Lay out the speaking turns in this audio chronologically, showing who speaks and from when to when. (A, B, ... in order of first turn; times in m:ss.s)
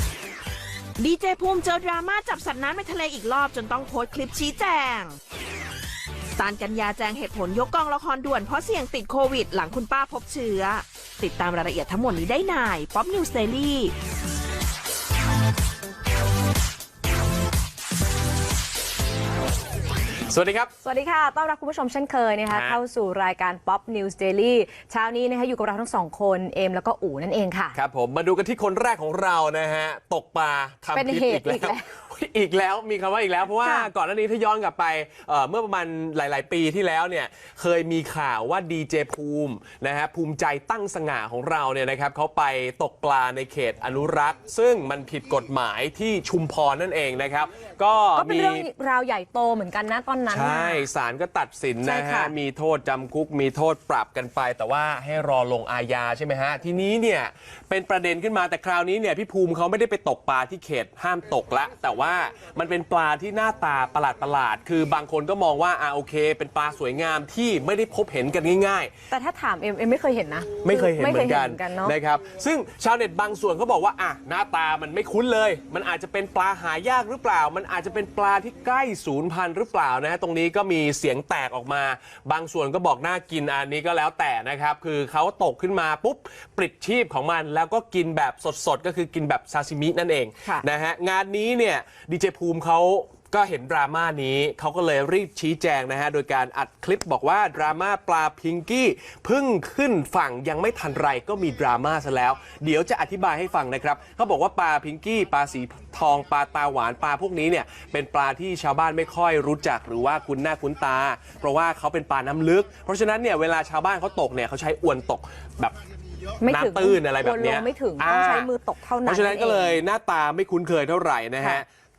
0:01.0-0:05.2 A
0:06.4-0:14.0 A
0:20.3-0:20.7 B
0:20.8-0:27.8 C
0:22.5-0:22.8 B
0:27.8-0:48.7 B
0:30.9-0:31.9 C
0:48.2-0:50.9 C
0:50.3-1:08.9 B
0:51.8-0:52.3 C
1:09.1-1:12.0 C
1:10.6-1:55.8 B
1:56.4-1:59.8 C
1:56.5-1:58.5 B
1:59.1-2:01.7 B